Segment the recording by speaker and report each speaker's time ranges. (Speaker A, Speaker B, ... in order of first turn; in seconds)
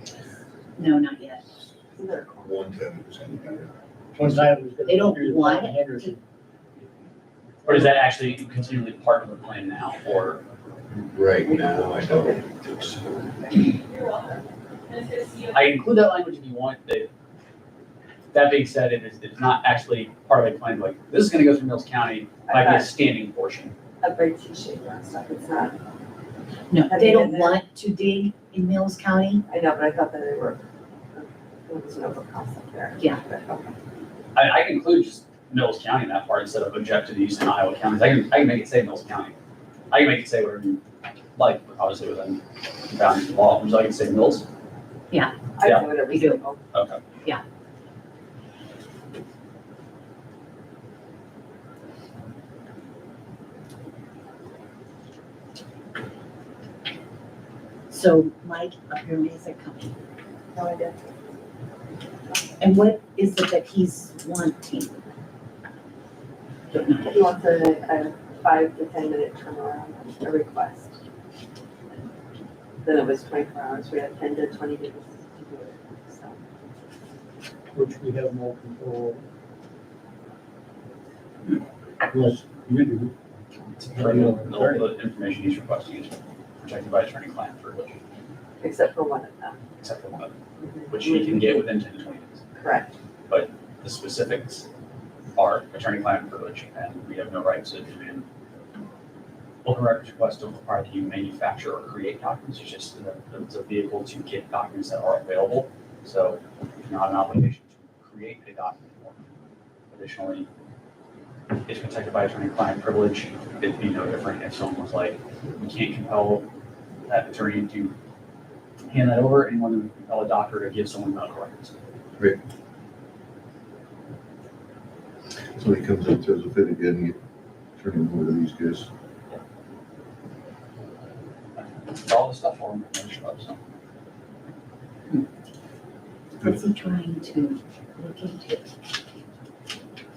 Speaker A: 0.8-1.4, 4.8-6.1, 26.7-29.4, 45.1-46.4, 57.9-59.9, 62.6-64.9, 66.7-67.0, 136.4-138.7
Speaker B: 1.9-2.5, 11.4-12.4, 13.9-14.4, 22.5-23.0, 24.0-25.8, 26.9-27.6, 29.5-33.8, 45.5-46.6, 60.5-61.1, 67.0-71.0, 72.8-76.4, 88.6-89.6, 90.6-91.5, 92.5-92.9
Speaker C: 2.4-3.7, 10.9-13.7, 125.5-127.2, 127.8-128.9
Speaker D: 4.1-6.2, 77.7-79.2, 82.0-83.1, 83.9-84.8
Speaker E: 7.6-10.4, 15.5-17.1, 18.3-23.7, 34.3-39.3, 39.9-40.8, 41.4-44.5, 45.6-45.9, 46.7-47.0, 83.7-88.0, 89.8-90.3, 90.9-92.4, 93.3-94.7, 95.3-98.2, 99.6-109.2, 109.9-110.5, 111.7-116.5, 117.1-117.9, 118.9-121.7, 131.6-133.6